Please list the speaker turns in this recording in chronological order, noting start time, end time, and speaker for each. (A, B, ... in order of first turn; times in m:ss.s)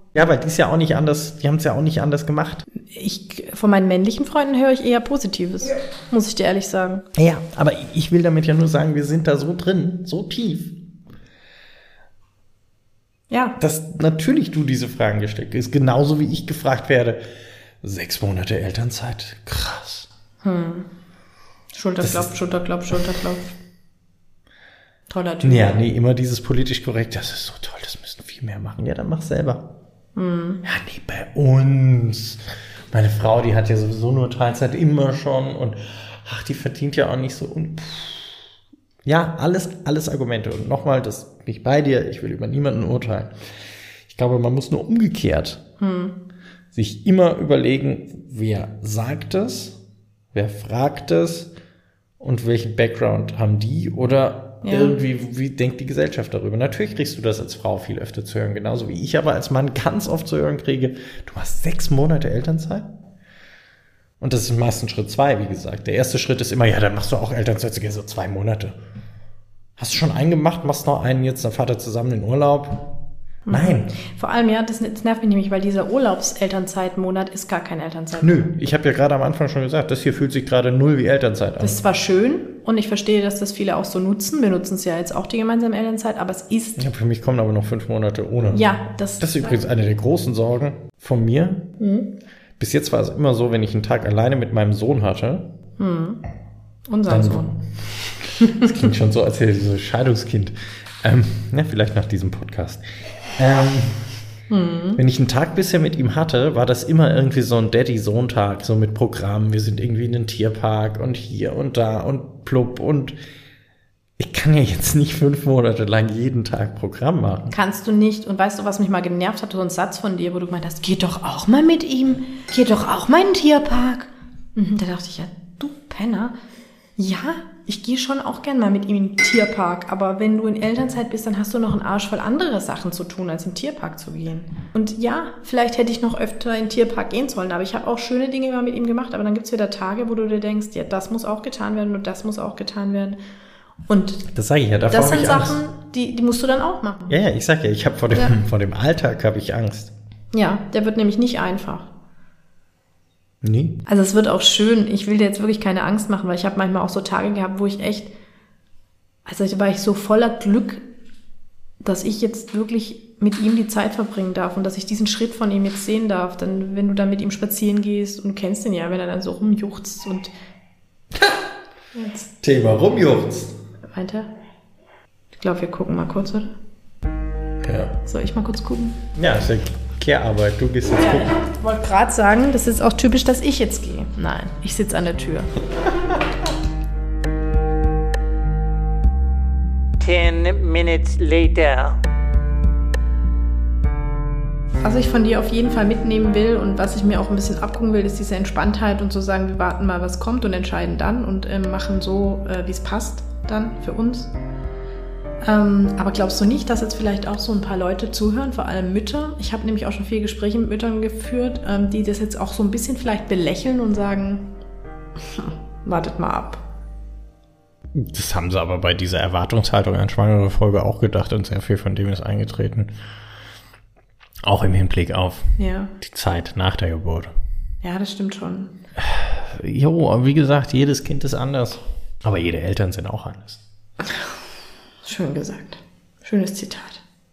0:00.1-0:02.7 A
0:02.8-0:07.0 B
0:07.2-0:10.8 A
0:13.3-0:13.6 B
0:13.6-0:17.2 A
0:17.8-0:20.1 A
0:20.4-0:20.9 B
0:21.7-0:23.5 B
0:22.0-0:22.3 A
0:25.1-0:25.8 B
0:25.4-0:29.7 A
0:30.2-0:30.6 B
0:30.6-0:38.4 A
0:39.0-0:43.4 A
0:44.1-0:45.6 A
0:45.8-0:46.2 B
0:46.7-0:49.8 A
0:50.3-0:51.5 A
0:52.2-1:02.9 A
0:54.6-0:55.0 B
1:04.2-1:08.8 A
1:09.8-1:13.9 A
1:13.5-1:18.4 B
1:18.1-1:21.8 A
1:21.6-1:26.8 B
1:26.8-1:28.7 A
1:28.5-1:29.5 B
1:29.2-1:31.7 A
1:31.8-1:32.1 B
1:32.6-1:35.5 A
1:35.8-1:36.2 B
1:36.9-1:37.6 B
1:37.1-1:37.6 A
1:38.4-1:38.7 B
1:38.5-1:42.8 A
1:43.4-1:44.2 A
1:44.5-1:45.0 B
1:45.0-1:53.2 A
1:54.2-1:57.6 A
1:57.5-2:06.3 B
2:07.0-2:23.2 B
2:23.9-2:24.3 B
2:24.3-2:25.6 A
2:24.9-2:27.1 B
2:27.1-2:29.9 A
2:30.3-2:31.9 B
2:33.4-2:33.8 A
2:33.9-2:38.1 B
2:39.3-2:40.8 B
2:41.8-2:50.3 B
2:51.9-2:52.3 B
2:52.4-2:53.6 A
2:53.9-2:54.3 B
2:55.4-2:56.5 B
2:57.6-2:58.0 A
2:58.0-2:59.0 B
2:59.2-3:01.4 A
3:01.0-3:05.5 B
3:10.0-3:12.0 C
3:14.8-3:24.3 B
3:25.4-3:34.5 B
3:35.4-3:36.6 B
3:38.0-3:42.9 A
3:44.4-3:47.3 A
3:45.6-3:45.9 B
3:47.8-3:48.7 B
3:49.0-3:53.6 A
3:55.0-3:57.0 B